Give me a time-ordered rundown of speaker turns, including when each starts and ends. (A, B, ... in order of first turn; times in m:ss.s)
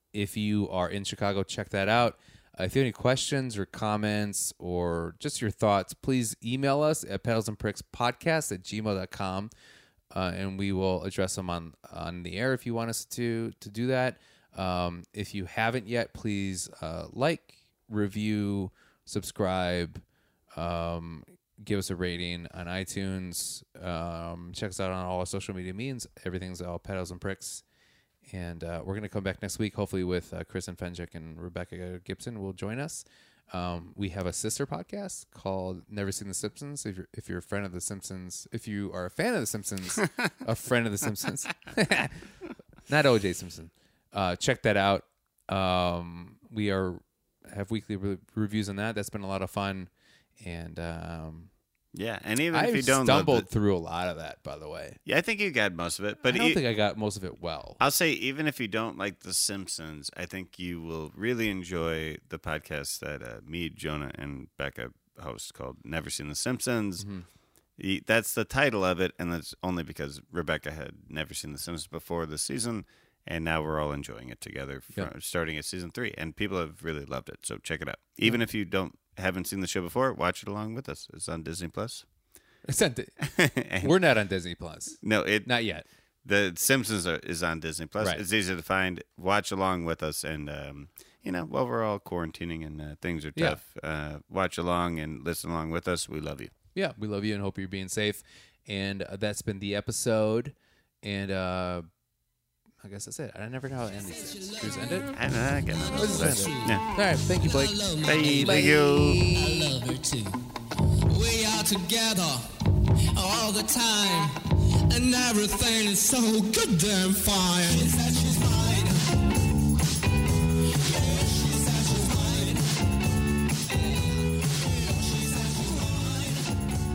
0:00.1-0:09.5 A
0:10.1-0:20.0 A
0:20.6-0:27.6 A
0:28.3-0:42.3 A
0:42.9-0:51.5 A
0:51.9-0:53.5 B
0:52.5-0:55.0 A
0:55.1-0:56.6 B
0:56.2-0:57.8 A
0:57.8-1:07.0 B
1:07.0-1:07.3 A
1:07.8-1:22.0 B
1:22.7-1:23.1 A
1:23.2-1:24.0 B
1:23.8-1:25.8 A
1:25.0-1:25.5 B
1:26.2-1:36.5 B
1:36.8-1:41.9 A
1:42.8-1:45.1 A
1:44.1-1:45.2 C
1:45.1-1:46.8 B
1:45.7-1:50.4 C
1:46.0-1:49.7 A
1:48.0-1:49.2 B
1:51.1-1:59.2 C
2:00.6-2:02.8 C
2:03.6-2:06.7 C